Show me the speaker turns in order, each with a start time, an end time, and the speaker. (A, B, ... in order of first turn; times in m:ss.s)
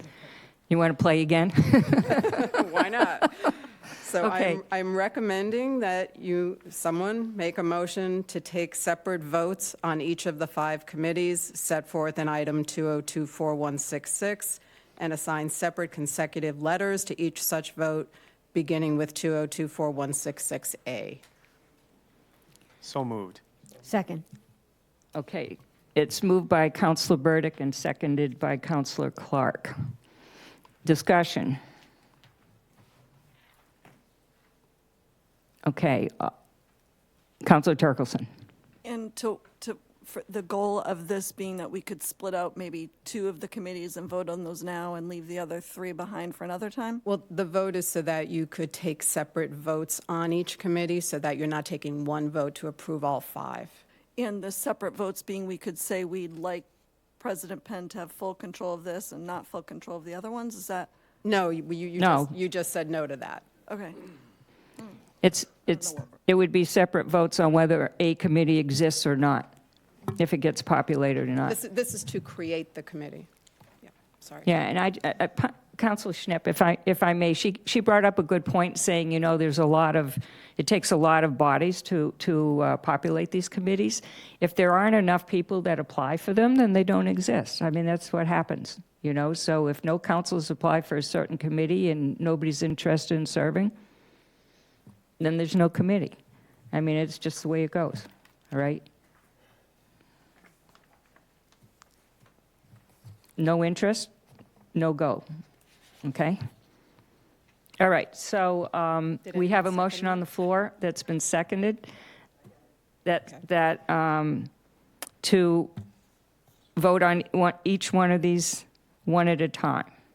0:00.7-0:02.5 A
0:02.1-0:21.2 B
0:04.2-0:04.6 A
0:25.2-0:29.7 A
0:30.8-0:31.6 A
0:35.7-0:36.3 A
0:37.4-0:38.3 A
0:38.8-0:47.0 C
0:47.0-0:53.8 B
0:54.2-1:00.9 C
1:01.2-1:03.4 B
1:02.0-1:02.3 A
1:03.7-1:04.0 C
1:05.2-1:09.5 A
1:05.7-1:06.1 C
1:10.2-1:11.6 A
1:11.4-1:13.3 B
1:13.8-1:14.5 B
1:14.4-1:33.7 A
1:35.2-1:36.2 A
1:36.7-1:38.8 A
1:43.4-1:44.1 A
1:44.7-1:45.2 A
1:46.0-1:46.4 A
1:47.8-1:51.9 A
1:49.3-1:50.2 B
1:53.0-1:54.5 A
1:55.2-1:55.7 A
1:56.8-1:59.9 A